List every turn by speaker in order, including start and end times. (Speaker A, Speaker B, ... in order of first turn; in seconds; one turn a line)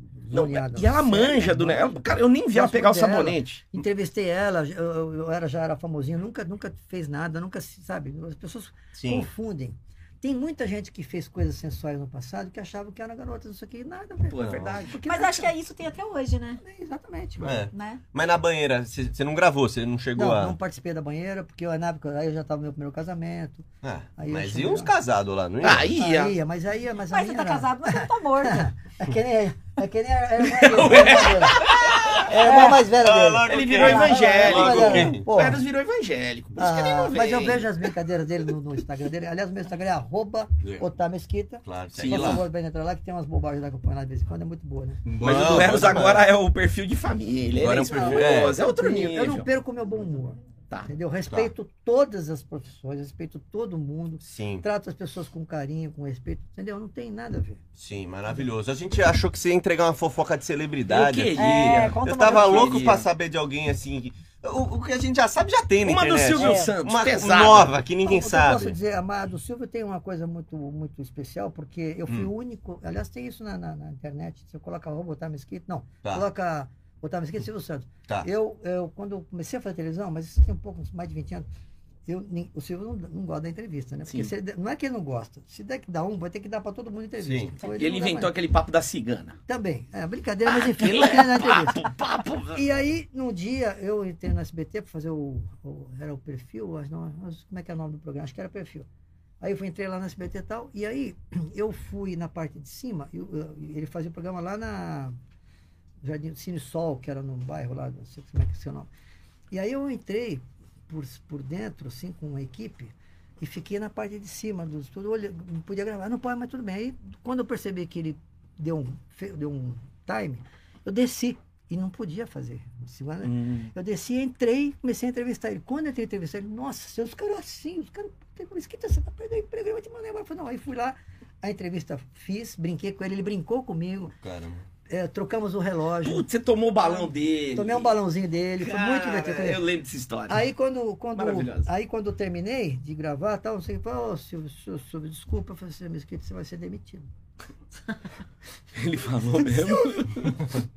Speaker A: 0.2-2.0
Speaker B: 0.3-3.7
Speaker A: 2.5-15.5
Speaker C: 8.9-9.3
Speaker B: 14.3-15.0
Speaker C: 14.4-14.8
Speaker D: 15.1-16.6
Speaker A: 16.6-17.6
Speaker C: 17.4-20.5
Speaker D: 17.7-18.0
Speaker A: 20.1-24.9
Speaker C: 23.8-25.9
Speaker B: 25.6-26.3
Speaker A: 25.6-35.6
Speaker D: 27.1-28.7
Speaker B: 30.4-32.3
Speaker C: 32.0-35.3
Speaker D: 32.5-32.8
Speaker B: 33.5-37.9
Speaker A: 36.5-45.0
Speaker C: 41.6-42.4
Speaker B: 42.0-42.4
Speaker C: 45.0-46.3
Speaker B: 45.2-49.5
Speaker C: 47.6-48.6
Speaker A: 47.7-57.6
Speaker C: 54.2-54.6
Speaker C: 57.8-68.8
Speaker B: 60.9-63.0
Speaker D: 61.4-62.9
Speaker B: 65.8-67.8
Speaker D: 66.3-66.7
Speaker A: 68.0-81.5
Speaker A: 82.0-88.3
Speaker C: 87.2-87.5
Speaker B: 87.7-89.3
Speaker A: 89.5-91.9
Speaker B: 90.5-92.6
Speaker A: 92.5-98.9
Speaker A: 99.4-105.1
Speaker A: 106.0-108.9
Speaker A: 109.5-134.1
Speaker B: 123.2-123.7
Speaker C: 134.2-134.6
Speaker A: 134.9-136.2
Speaker B: 136.0-137.9
Speaker A: 137.5-139.6
Speaker B: 138.6-140.4
Speaker A: 140.3-147.1
Speaker B: 141.1-141.7
Speaker B: 148.7-150.4
Speaker A: 149.4-150.2